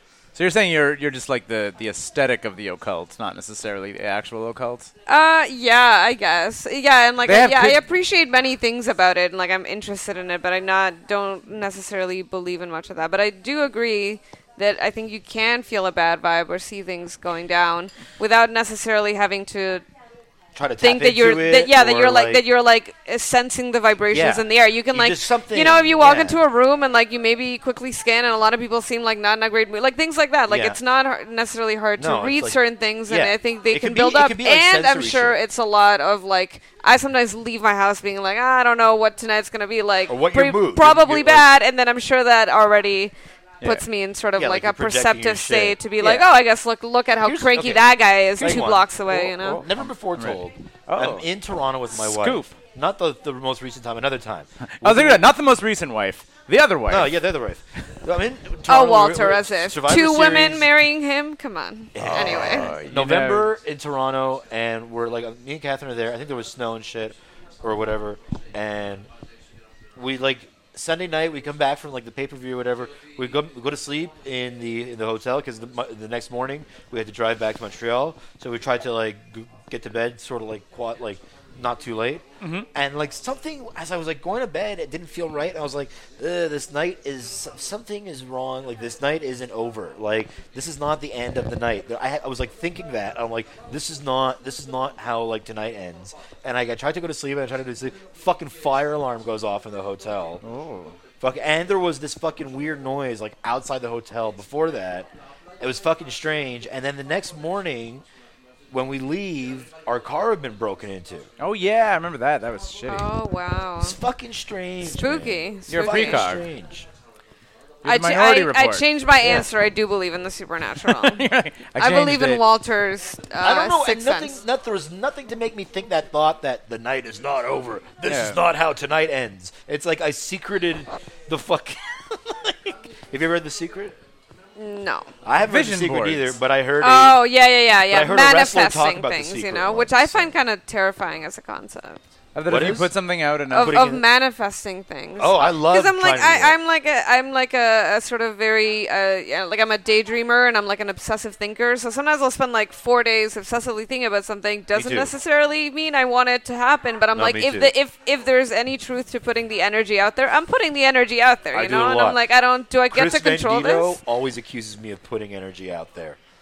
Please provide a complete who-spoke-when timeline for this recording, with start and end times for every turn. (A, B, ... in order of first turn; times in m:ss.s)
0:00.4-0:04.9 A
0:05.1-0:19.8 B
0:07.2-0:07.8 A
0:20.6-0:22.4 C
0:20.8-0:49.6 B
0:24.1-0:26.4 C
0:30.5-0:30.8 C
0:32.0-0:35.4 C
0:40.1-0:41.5 C
0:44.4-0:46.3 C
0:47.2-0:55.3 C
0:48.4-0:51.3 A
0:51.9-0:52.5 A
0:54.7-0:57.2 A
0:56.9-1:00.7 C
0:58.7-1:02.7 B
1:01.9-1:09.1 C
1:02.0-1:03.5 A
1:10.0-1:40.4 C
1:22.4-1:22.7 A
1:40.4-1:41.0 A
1:41.2-1:48.0 C
1:48.7-1:51.3 C
1:51.4-1:53.1 A
1:52.9-1:54.0 B
1:53.8-1:56.9 C
1:54.8-1:56.3 B
1:55.7-1:56.5 A
1:57.8-1:59.5 A
1:57.8-2:04.4 B
2:00.8-2:02.4 A
2:03.4-2:14.0 C
2:08.0-2:08.4 A
2:14.6-2:15.1 B
2:15.2-2:17.2 C
2:15.4-2:16.4 A
2:16.8-2:22.0 B
2:17.8-2:20.3 C
2:22.4-2:23.8 A
2:22.5-2:22.9 C
2:23.5-2:44.0 B
2:23.6-2:24.0 C
2:25.2-2:26.6 C
2:34.7-2:35.1 C
2:37.2-2:37.7 C
2:41.5-2:42.2 C
2:42.9-2:46.2 C